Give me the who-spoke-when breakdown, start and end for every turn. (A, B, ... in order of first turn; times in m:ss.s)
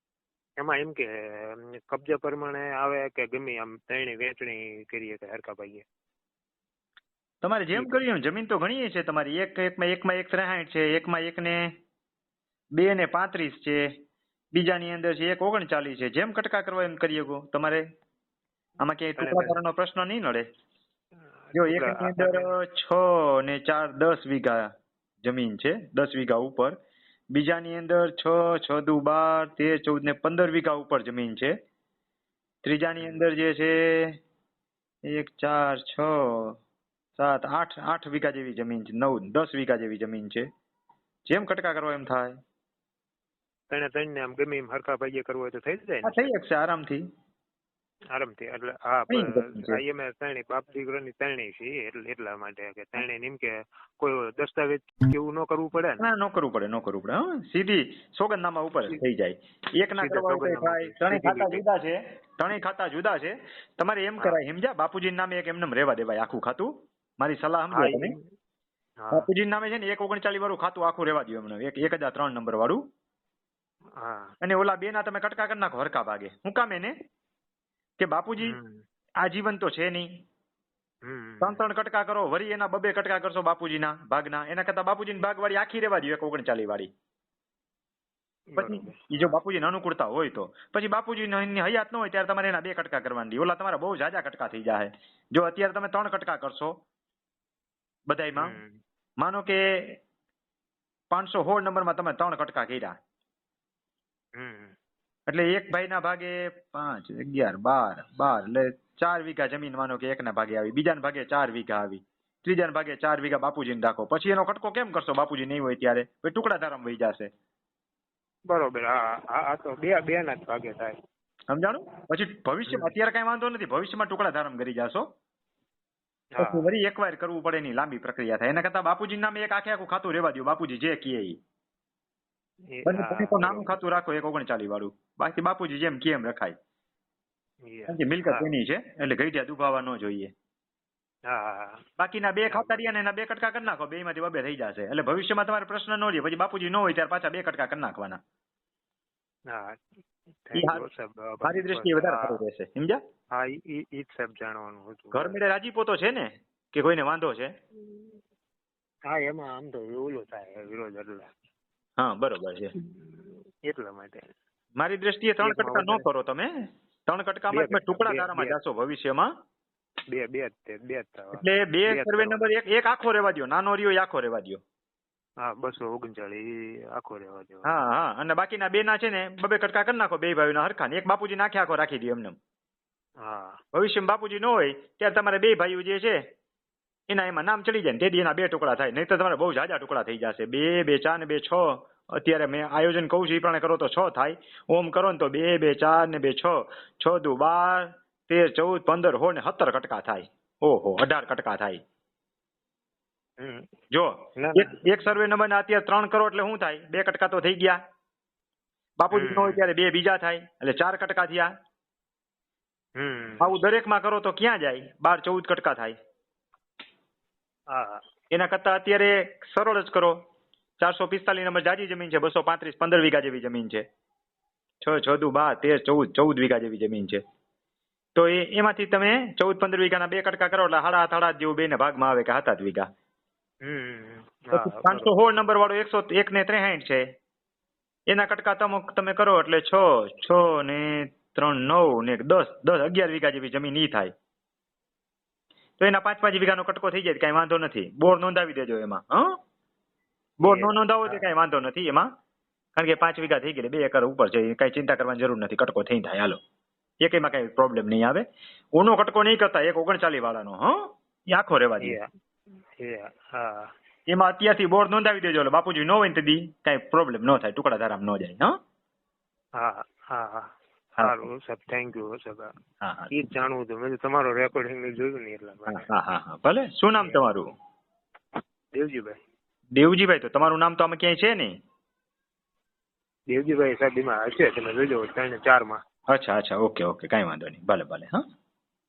0:00.6-0:05.8 A
0:07.4-0:11.7 B
0:12.8-0:13.9 B
0:14.5-0:17.8 B
0:18.8-0:20.4 B
0:19.2-0:19.6 A
0:21.5-0:22.5 A
0:21.6-0:24.7 B
0:25.2-0:26.8 B
0:27.3-0:31.5 B
0:32.6-0:34.2 B
0:33.0-0:33.2 A
0:35.0-0:36.6 B
0:37.2-0:40.5 B
0:41.3-0:42.3 B
0:43.7-0:46.3 A
0:46.0-0:47.0 B
0:48.1-0:56.0 A
0:49.1-0:49.8 B
0:56.0-1:08.2 B
1:00.0-1:01.6 A
1:07.7-1:08.2 A
1:09.0-1:09.3 A
1:09.1-1:12.8 B
1:14.0-1:14.3 A
1:14.4-1:16.9 B
1:18.0-1:18.6 B
1:18.4-1:18.8 A
1:19.2-1:20.1 B
1:21.1-1:21.6 A
1:21.4-1:26.9 B
1:28.5-1:29.4 A
1:28.6-1:36.7 B
1:38.1-1:38.6 B
1:38.4-1:38.8 A
1:39.2-1:40.0 B
1:41.1-1:42.9 B
1:44.4-1:44.8 A
1:45.3-1:57.3 B
1:58.5-2:01.0 A
2:01.5-2:05.0 B
2:06.4-2:06.7 A
2:06.4-2:11.4 B
2:12.7-2:13.7 A
2:12.9-2:16.6 B
2:17.7-2:18.5 A
2:17.9-2:20.3 B
2:21.3-2:21.8 A
2:22.0-2:28.2 B
2:22.5-2:22.8 A
2:29.5-2:29.8 A
2:30.4-2:32.4 A
2:30.6-2:30.8 B
2:31.4-2:33.0 B
2:33.3-2:35.4 A
2:35.1-2:37.5 B
2:39.1-2:41.3 A
2:42.0-2:42.7 B
2:42.8-2:44.3 A
2:44.8-2:46.5 B
2:45.4-2:46.0 A
2:47.1-2:49.3 B
2:47.5-2:48.6 A
2:50.1-2:52.4 A
2:51.3-2:54.6 B
2:55.4-2:57.8 A
2:57.6-3:02.4 B
3:03.2-3:03.6 A
3:03.7-3:06.2 B
3:07.1-3:21.8 B
3:23.4-3:23.7 A
3:23.9-3:27.8 B
3:24.4-3:24.7 A
3:29.0-3:31.5 B
3:29.1-3:29.6 A
3:33.0-3:33.5 A
3:33.4-3:35.9 B
3:37.7-3:38.0 A
3:38.3-3:40.2 B
3:40.8-3:43.8 B
3:44.8-3:47.2 B
3:48.2-3:52.9 B
3:53.6-3:55.1 A
3:54.5-3:57.0 B
3:58.1-4:04.1 B
4:05.8-4:09.3 B
4:10.4-4:12.1 B
4:10.4-4:11.2 A
4:12.8-4:16.4 B
4:17.0-4:18.2 B
4:18.8-4:20.7 B
4:21.3-4:22.0 B
4:21.8-4:22.1 A
4:22.8-4:23.7 A
4:24.1-4:28.5 B
4:29.6-4:32.5 A
4:32.8-4:33.1 B
4:33.1-4:35.9 A
4:35.7-4:37.5 B
4:37.0-4:37.2 A
4:38.8-4:39.2 A
4:39.8-4:41.5 B
4:43.3-4:45.8 A
4:46.1-4:48.2 B